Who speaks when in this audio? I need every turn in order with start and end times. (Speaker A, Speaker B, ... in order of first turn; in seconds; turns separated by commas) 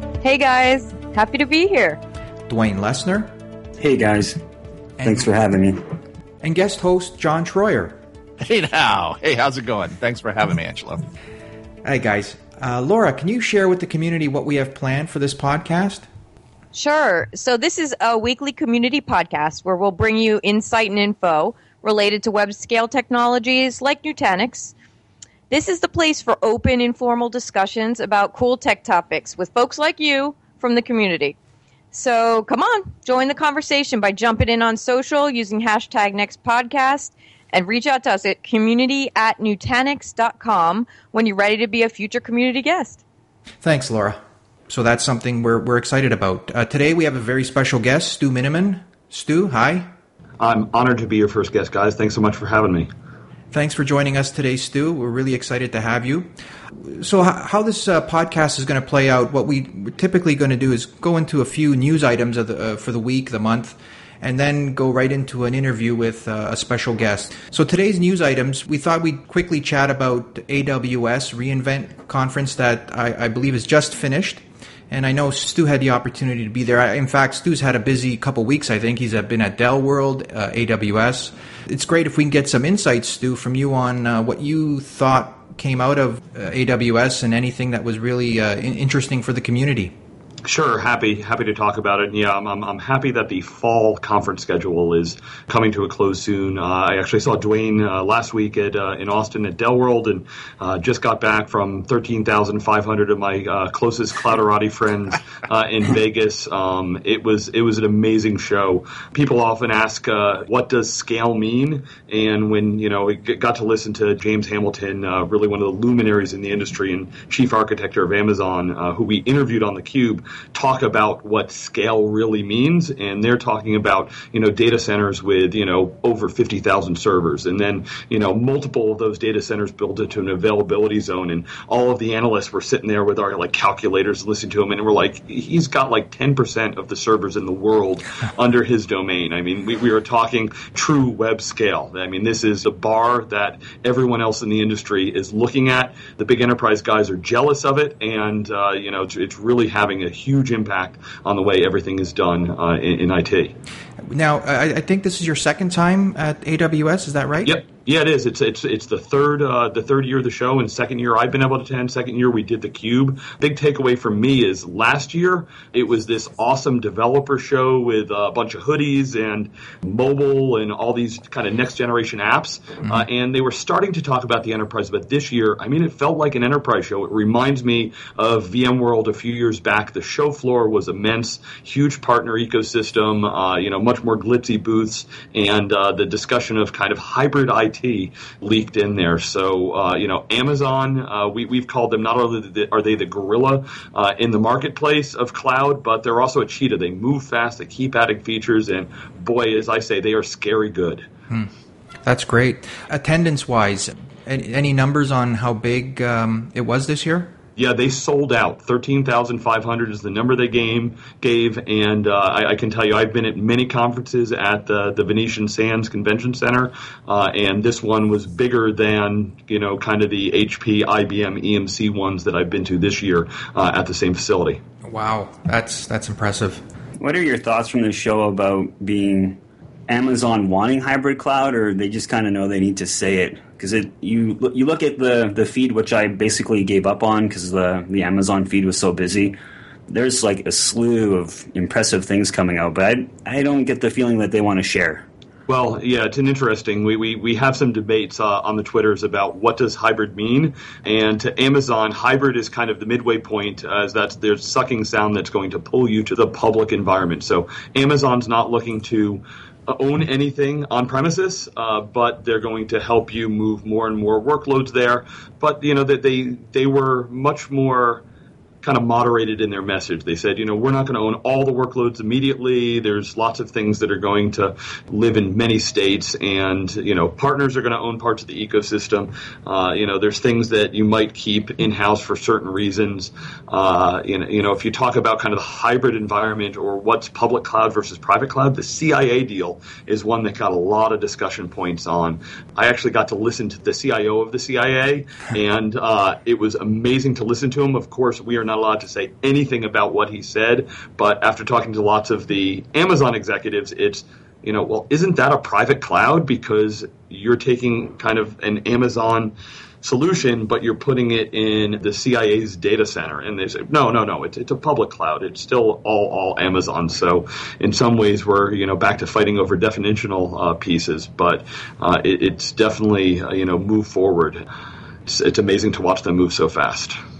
Speaker A: 0.2-2.0, Speaker B: 2.5-3.3, Speaker C: 3.8-4.4, Speaker C: 5.0-5.8, Speaker B: 6.4-8.0, Speaker D: 8.4-11.0, Speaker B: 11.8-16.1, Speaker A: 16.7-24.7, Speaker A: 25.5-31.4, Speaker A: 31.9-43.0, Speaker B: 43.6-49.9, Speaker E: 50.4-52.9, Speaker B: 53.5-56.3, Speaker B: 56.8-89.9, Speaker E: 90.4-153.5, Speaker B: 154.1-157.6, Speaker E: 157.4-201.1, Speaker B: 202.0-207.3, Speaker E: 207.6-224.6, Speaker B: 224.8-226.6, Speaker C: 227.0-239.3, Speaker C: 239.9-245.1, Speaker E: 245.5-268.0, Speaker E: 268.6-324.4, Speaker E: 325.1-326.9